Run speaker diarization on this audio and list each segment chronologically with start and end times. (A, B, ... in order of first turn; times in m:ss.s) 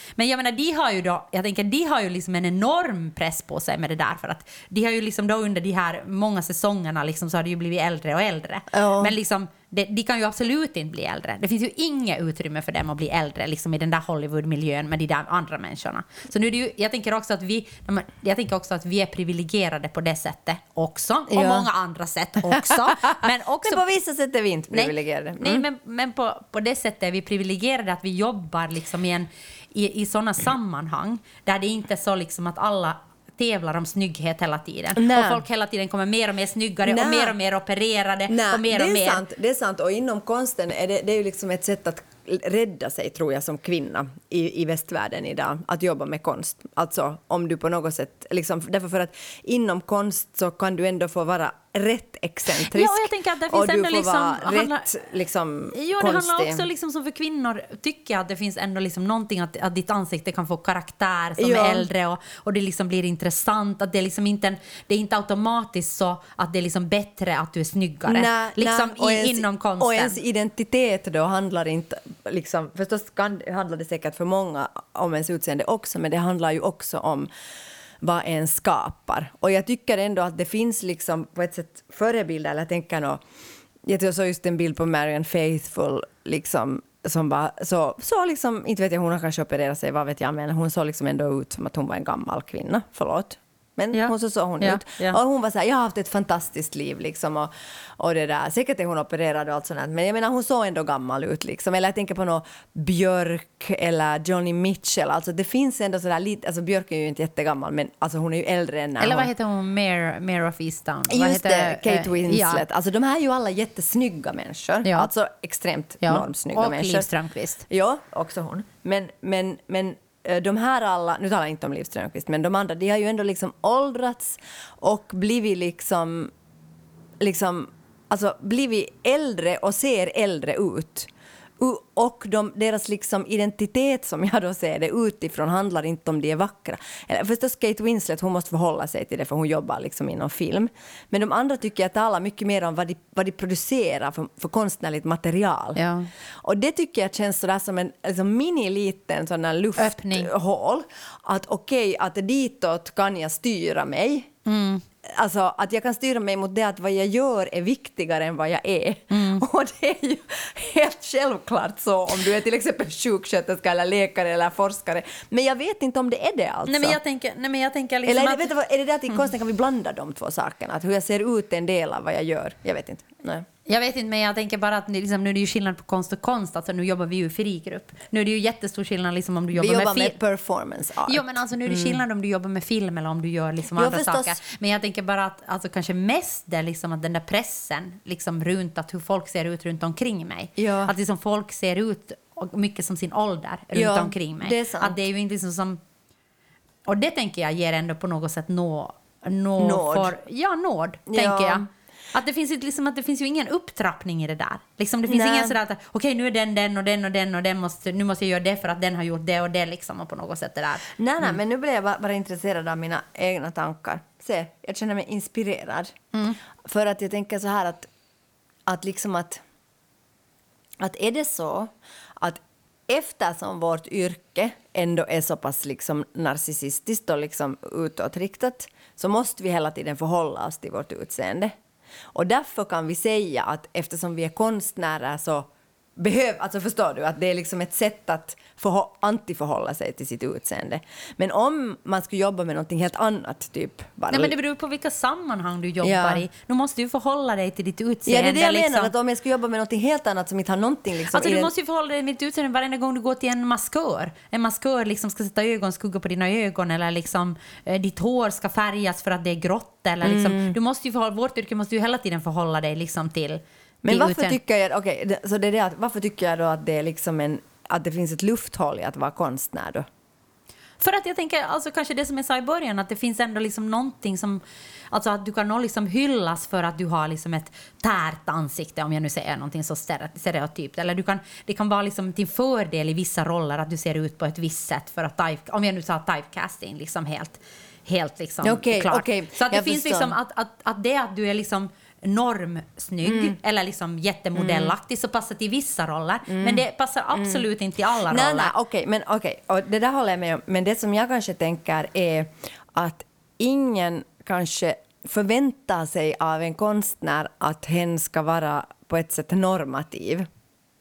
0:00.2-0:23.8 A
0:08.7-0:09.1 B
0:21.3-0:21.7 B
0:22.5-0:25.6 B
0:24.7-0:39.2 A
0:35.0-0:35.4 B
0:36.8-0:37.4 B
0:38.3-0:56.6 B
0:52.5-0:54.9 A
0:55.7-1:10.2 A
1:01.4-1:01.9 B
1:08.1-1:17.3 B
1:18.0-1:23.2 B
1:23.8-1:49.3 B
1:33.9-1:35.2 A
1:49.0-1:52.6 A
1:51.1-1:57.1 B
1:54.8-1:55.1 A
1:56.0-1:57.6 A
1:57.7-2:06.3 B
2:07.2-2:25.8 B
2:25.8-2:26.1 A
2:26.4-2:34.3 B
2:29.8-2:30.3 A
2:34.4-2:34.8 A
2:35.0-2:47.0 B
2:39.1-2:39.4 A
2:46.7-2:48.5 A
2:48.0-2:53.4 B
2:53.7-3:00.2 A
2:59.5-3:02.0 B
3:01.0-3:15.8 A
3:03.7-3:04.4 B
3:10.6-3:10.9 B
3:13.7-3:15.0 B
3:16.8-3:30.9 A
3:19.6-3:20.1 B
3:21.1-3:21.6 B
3:25.1-3:25.6 B
3:31.0-3:35.9 B
3:36.6-3:37.9 B
3:38.7-3:39.4 B
3:40.8-3:51.5 B
3:52.1-4:04.3 B
4:04.1-4:08.9 A
4:05.8-4:06.2 B
4:08.0-4:11.5 B
4:11.1-4:24.4 A
4:20.0-4:20.6 B
4:23.8-4:29.8 B
4:30.8-4:58.5 A
4:48.4-4:50.1 B
4:53.0-4:53.4 B
4:54.4-4:54.7 B
4:56.3-4:56.6 B
4:57.1-4:57.4 B
4:58.1-5:10.3 B